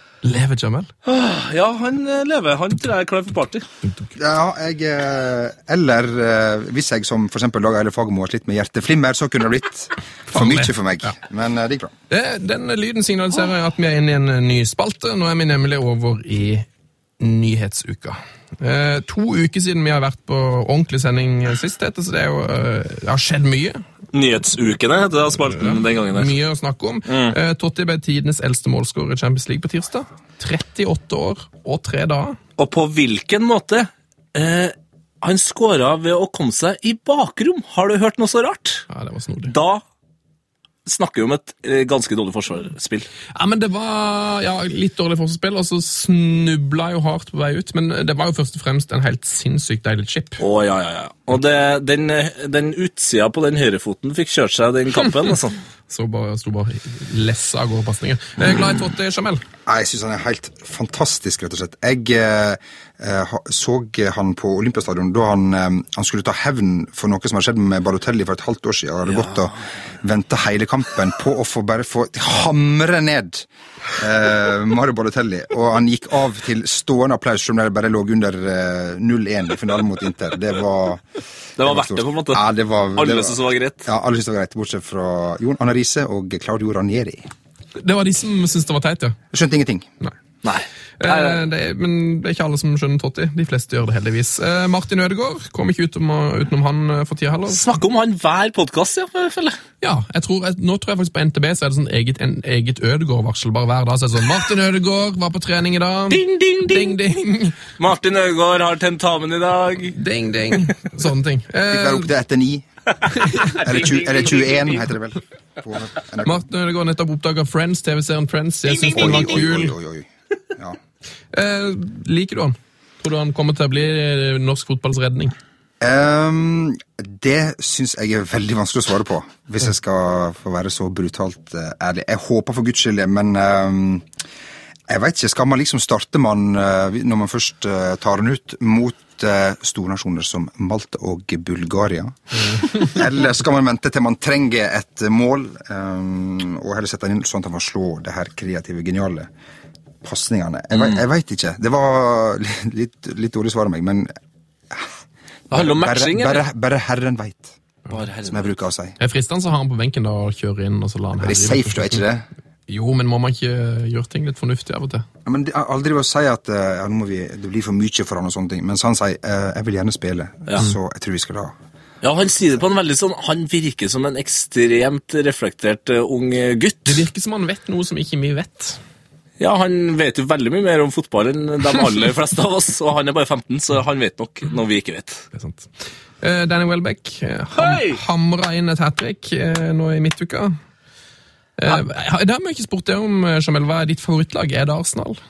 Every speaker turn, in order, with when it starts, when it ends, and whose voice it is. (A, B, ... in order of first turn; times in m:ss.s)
0:00.2-0:00.9 A
0:01.0-0:03.7 B
0:03.8-0:04.1 A
0:04.2-0:11.9 C
0:10.3-0:11.1 A
0:12.1-0:16.7 A
0:17.2-0:23.8 A
0:24.1-0:26.3 B
0:25.6-0:32.4 A
0:27.1-0:27.4 B
0:32.6-0:38.8 B
0:38.9-0:39.5 A
0:39.5-0:39.8 B
0:40.8-0:43.1 B
0:43.3-0:50.4 A
0:50.4-0:55.6 B
0:55.9-0:59.4 A
0:59.6-1:21.0 C
1:21.6-1:22.4 B
1:21.6-1:27.3 C
1:23.0-1:23.9 B
1:27.8-1:29.2 A
1:29.3-1:29.9 C
1:30.4-1:31.4 B
1:31.0-1:37.8 A
1:37.5-1:39.6 B
1:39.8-1:47.6 A
1:46.1-1:47.0 B
1:47.8-1:50.0 B
1:49.9-1:52.1 A
1:51.7-1:52.6 C
1:53.1-1:53.6 A
1:53.5-1:54.9 B
1:53.6-1:56.4 C
1:56.2-1:59.7 A
1:58.6-1:59.4 B
1:58.9-2:00.8 C
2:01.3-2:05.3 A
2:05.8-2:14.1 C
2:14.9-2:29.3 C
2:30.0-2:34.1 C
2:35.5-2:36.4 B
2:35.5-2:37.6 C
2:37.9-2:38.4 B
2:38.3-2:39.0 C
2:39.0-2:42.0 A
2:41.2-2:42.3 C
2:42.7-2:45.0 A
2:45.2-2:51.5 C
2:52.0-2:57.0 B
2:56.9-2:58.8 A
2:59.4-3:05.2 B
3:05.3-3:05.7 A
3:06.2-3:10.6 A
3:07.5-3:08.0 B
3:11.6-3:15.2 A